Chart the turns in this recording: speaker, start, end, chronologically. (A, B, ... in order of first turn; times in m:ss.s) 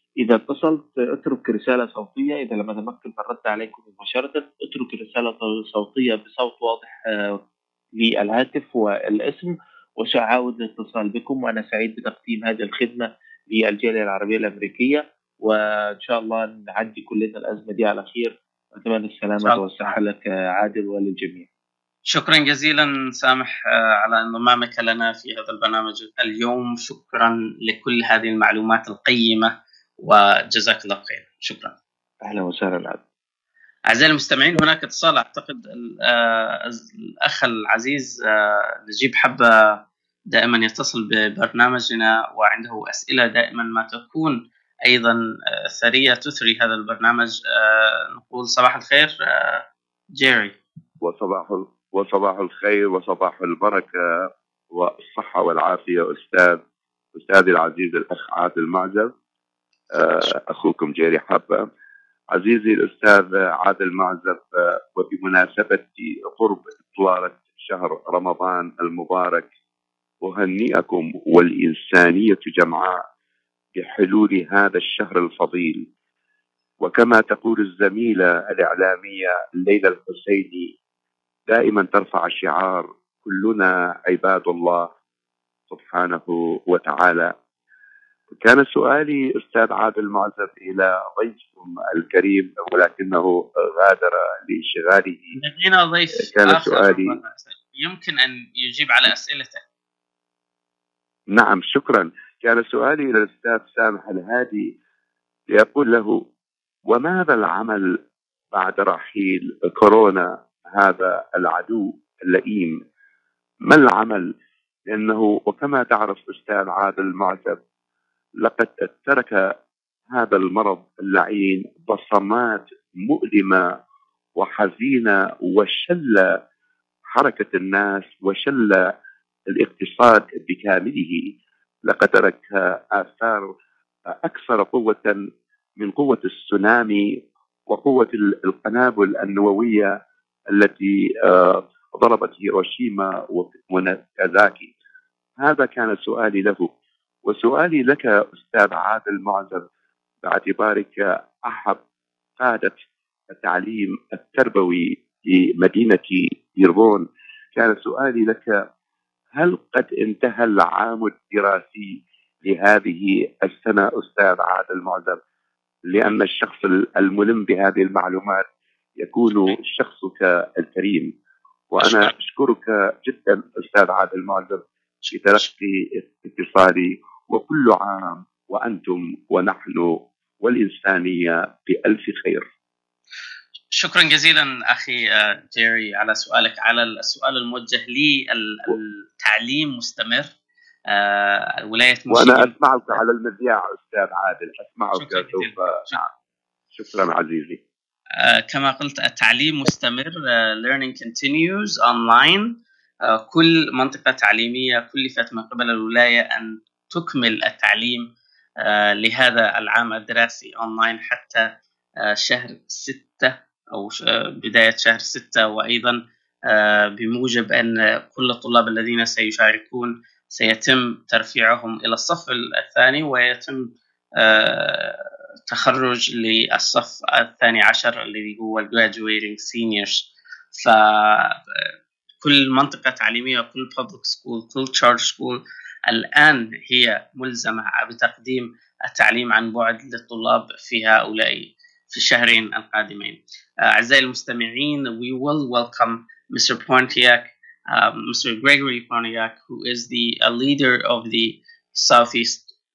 0:00.2-0:07.4 A
0:08.0-0:21.5 A
0:19.4-0:19.9 B
0:22.1-0:31.7 B
0:32.2-0:33.0 A
0:33.9-0:39.8 B
0:40.3-0:50.6 B
0:51.0-0:56.6 C
0:57.1-0:59.1 C
0:59.9-1:01.7 C
1:02.3-1:09.5 C
1:10.2-1:13.0 C
1:13.8-1:15.8 C
1:16.8-1:20.7 C
1:21.5-1:24.9 C
1:25.7-1:27.3 C
1:28.3-1:35.4 C
1:35.4-1:39.6 B
1:36.2-1:37.2 C
1:41.3-1:44.7 C
1:45.5-1:46.2 C
1:46.9-1:47.9 C
1:48.5-1:52.8 C
1:53.6-1:54.3 C
1:54.9-1:57.6 C
1:58.4-1:59.4 C
2:00.1-2:03.6 C
2:04.4-2:06.3 C
2:07.1-2:08.8 C
2:09.5-2:11.3 C
2:11.9-2:13.5 C
2:14.1-2:15.2 C
2:15.8-2:17.0 C
2:17.7-2:19.9 C
2:20.5-2:24.7 C
2:25.4-2:26.7 C
2:27.2-2:29.6 C
2:30.2-2:31.8 C
2:32.4-2:32.7 C
2:33.3-2:38.5 C
2:39.3-2:45.2 C
2:45.9-2:48.4 C
2:49.0-2:51.1 C
2:51.7-3:02.4 C
2:51.8-2:52.1 B
3:03.7-3:10.3 B
3:10.9-3:12.5 B
3:12.1-3:16.1 C
3:14.9-3:16.0 B
3:16.7-3:17.6 C
3:18.2-3:28.1 B
3:28.6-3:31.5 B
3:32.0-4:12.4 B